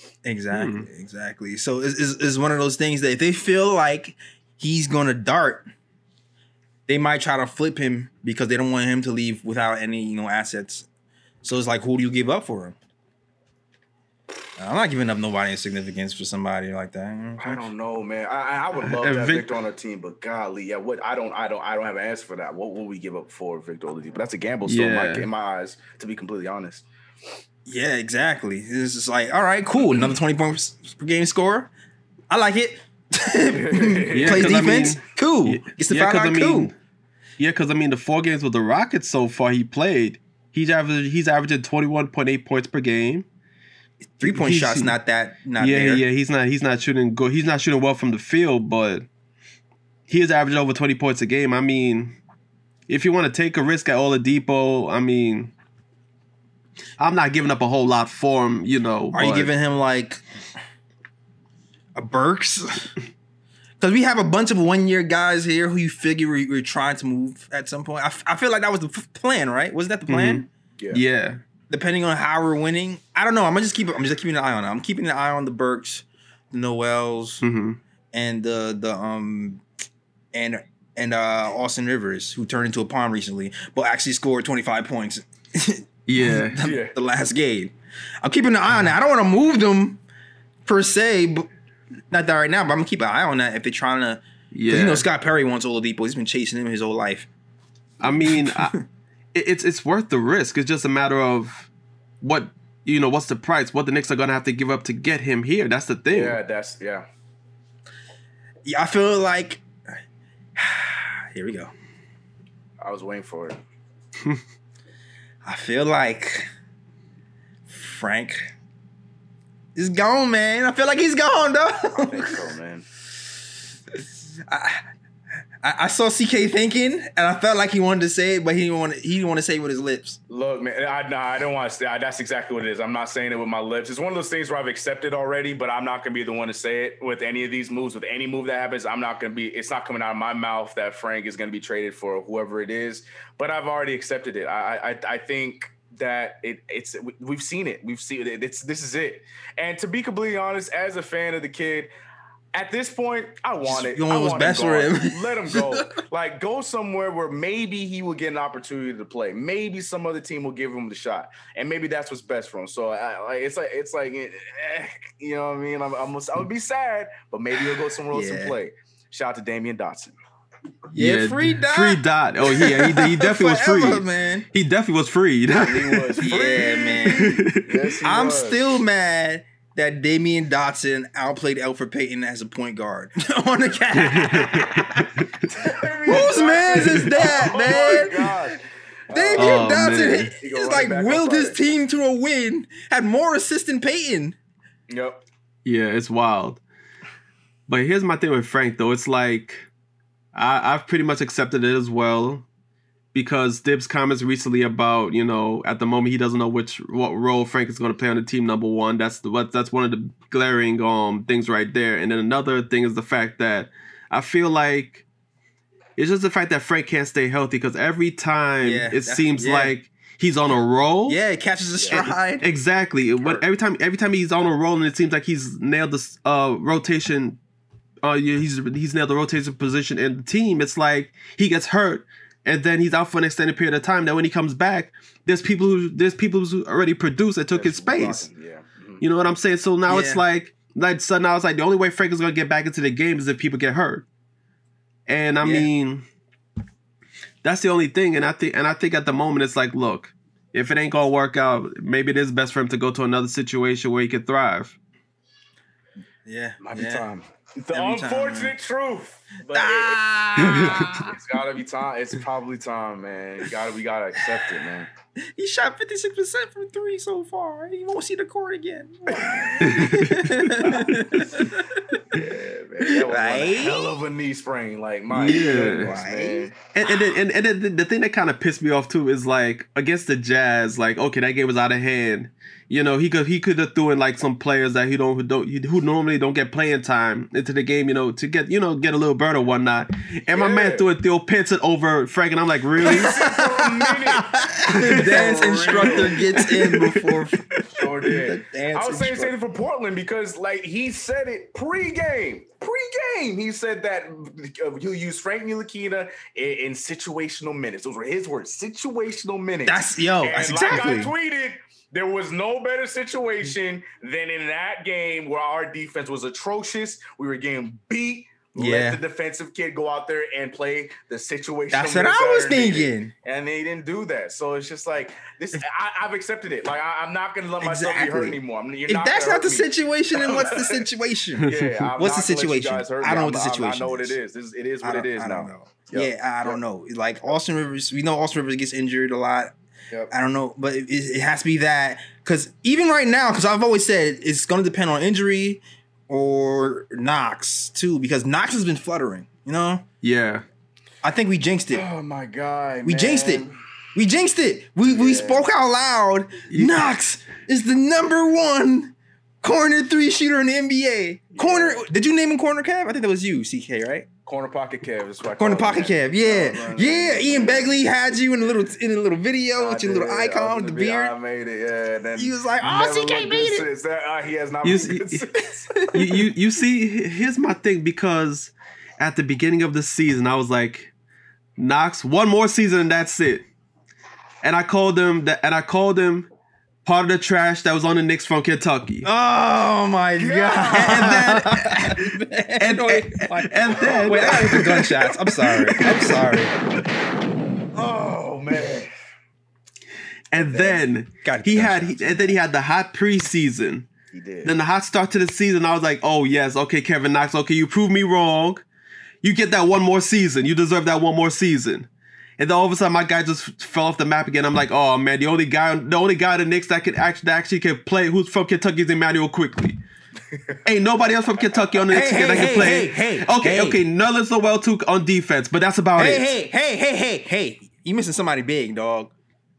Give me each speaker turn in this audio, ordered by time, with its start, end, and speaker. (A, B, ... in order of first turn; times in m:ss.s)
0:00.2-0:05.7 A
0:00.5-0:00.9 B
0:06.9-0:10.9 A
0:11.4-0:12.8 A
0:14.6-0:17.6 A
0:17.4-0:26.9 C
0:18.8-0:19.5 B
0:24.6-0:25.3 B
0:27.6-0:31.7 A
0:32.3-0:36.7 A
0:33.5-0:34.9 C
0:34.1-0:36.7 B
0:37.4-0:43.2 B
0:44.0-0:46.0 A
0:44.2-0:44.9 B
0:45.6-0:49.1 B
0:50.1-0:52.2 B
0:52.9-0:55.5 B
0:57.0-0:59.5 B
0:59.1-1:00.2 A
1:01.9-1:02.9 A
1:03.8-1:10.5 A
1:10.1-1:11.4 B
1:11.7-1:17.4 A
1:17.4-1:17.8 B
1:18.1-1:19.6 A
1:20.3-1:30.0 A
1:26.1-1:26.6 B
1:26.6-1:26.9 C
1:30.6-1:31.5 A
1:32.1-1:37.3 A
1:34.5-1:35.0 B
1:38.0-1:38.8 B
1:38.0-1:38.8 A
1:39.3-1:41.7 B
1:42.2-1:46.4 B
1:46.1-1:47.0 C
1:48.6-1:49.6 A
1:50.6-1:51.7 A
1:52.8-1:53.6 C
1:55.4-1:56.5 A
1:57.7-1:58.5 A
1:59.8-2:02.5 A
2:01.9-2:02.9 C
2:03.9-2:04.9 A
2:05.6-2:10.2 A
2:10.3-2:31.9 C
2:32.5-2:50.2 C
2:33.6-2:35.9 A
2:48.1-2:48.6 A
2:50.9-2:57.8 B
2:50.9-2:54.5 A
2:55.5-2:58.6 C
2:56.2-2:57.4 A
2:58.0-3:05.1 A
3:04.0-3:05.3 B
3:05.5-3:09.9 C
3:06.0-3:08.6 A
3:06.8-3:07.1 B
3:09.1-3:14.4 A
3:09.3-3:10.3 B
3:10.4-3:11.6 C
3:14.9-3:15.2 C
3:15.6-3:16.6 B
3:17.7-3:19.7 B
3:20.3-3:22.4 B
3:23.1-3:35.0 B
3:36.0-3:41.2 B
3:38.6-3:39.7 A
3:41.1-3:42.4 A
3:41.8-3:42.0 C
3:41.9-3:47.4 B
3:48.0-3:58.3 B
3:57.5-3:59.0 C
3:59.0-4:04.0 B
3:59.9-4:00.2 A
4:05.1-4:06.0 B
4:05.4-4:05.7 A
4:07.4-4:14.8 B
4:16.2-4:17.0 A
4:16.6-4:24.9 C
4:17.7-4:18.5 A
4:19.5-4:21.2 A
4:20.5-4:20.9 B
4:25.2-4:31.9 A
4:29.1-4:29.8 C
4:29.6-4:30.5 B
4:30.6-4:30.9 C
4:32.1-4:36.5 C
4:32.9-4:33.9 A
4:35.1-4:35.9 B
4:35.2-4:36.5 A
4:36.7-4:53.2 B
4:50.3-4:50.9 C
4:52.8-4:56.2 C
4:52.8-4:57.5 A
4:54.7-4:57.6 B
4:57.7-5:30.8 C
4:58.1-4:59.3 A
5:09.6-5:11.1 A
5:18.6-5:19.0 A
5:21.7-5:23.1 A
5:27.6-5:34.2 A
5:31.4-5:31.9 B
5:31.4-5:36.6 C
5:34.8-5:39.5 A
5:40.1-5:49.9 A
5:50.0-5:50.4 B
5:51.0-5:51.9 A
5:51.7-5:53.6 C
5:52.8-6:04.1 A
5:54.9-5:55.4 C
5:56.5-5:56.9 B
6:01.3-6:01.8 C
6:04.2-6:07.7 C
6:05.4-6:11.1 A
6:09.6-6:15.7 C
6:12.2-6:13.7 A
6:14.6-6:15.2 B
6:15.6-6:16.2 A
6:15.9-6:20.9 B
6:21.6-6:23.5 B
6:24.4-6:26.3 B
6:26.8-6:29.1 B
6:29.0-6:36.5 A
6:30.2-6:30.9 C
6:30.7-6:32.1 B
6:32.6-6:36.4 B
6:33.8-6:34.3 C
6:37.7-6:38.9 C
6:40.3-6:43.9 B
6:40.4-6:40.8 C
6:41.2-6:42.4 A
6:44.1-6:44.5 C
6:44.4-6:48.6 B
6:49.2-6:51.9 B
6:52.4-6:59.8 B
7:00.6-7:06.3 B
7:01.9-7:03.8 A
7:06.0-7:09.1 A